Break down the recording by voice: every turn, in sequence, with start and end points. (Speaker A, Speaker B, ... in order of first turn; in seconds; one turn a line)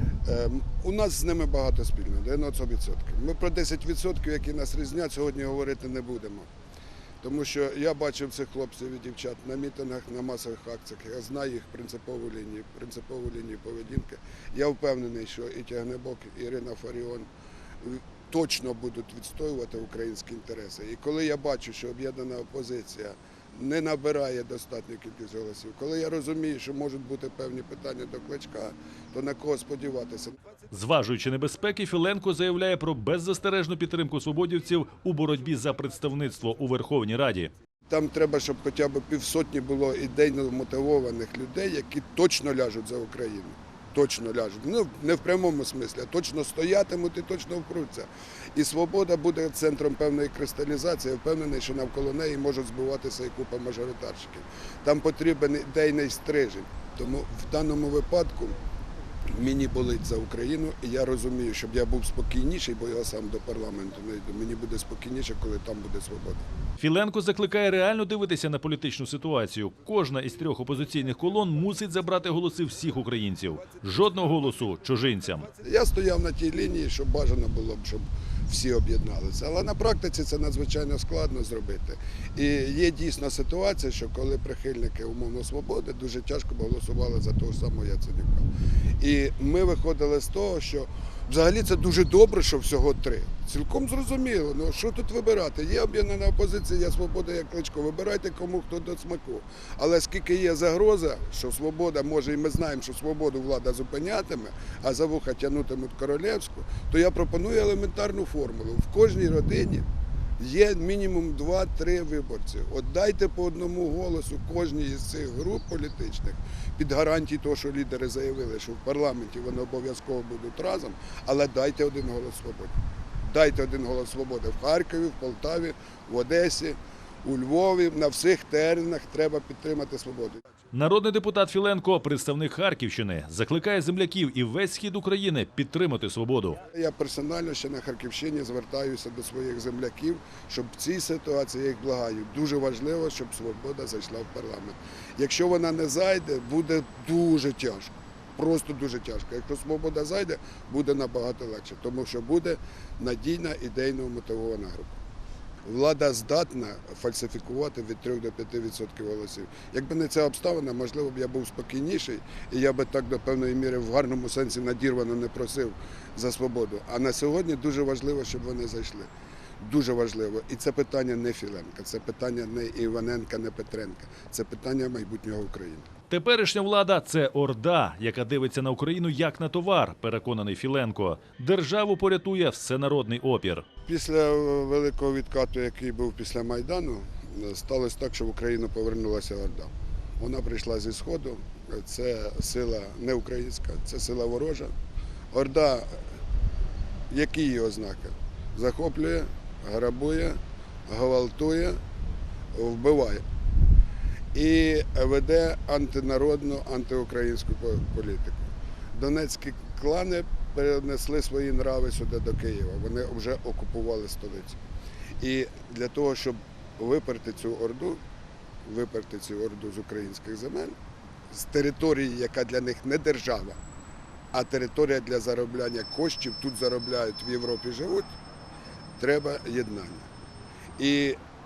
Speaker A: 0.2-6.5
Speaker A: 7.2-17.3
Speaker A: 17.8-30.3
Speaker B: 30.7-37.5
Speaker A: 37.9-58.6
Speaker A: 59.3-66.5
Speaker B: 66.8-75.5
Speaker A: 75.6-88.5
Speaker A: 89.0-109.8
Speaker A: 110.4-122.7
Speaker A: 123.3-130.4
Speaker B: 130.7-136.6
Speaker A: 136.7-155.0
Speaker A: 155.7-169.1
Speaker A: 169.6-175.9
Speaker B: 176.1-183.7
Speaker A: 183.9-194.7
Speaker A: 195.3-196.0
Speaker A: 197.1-201.8
Speaker A: 202.5-203.2
Speaker A: 204.3-214.6
Speaker A: 215.2-218.0
Speaker A: 218.6-220.7
Speaker A: 221.3-223.6
Speaker A: 224.3-228.1
Speaker A: 229.0-230.1
Speaker A: 230.8-231.2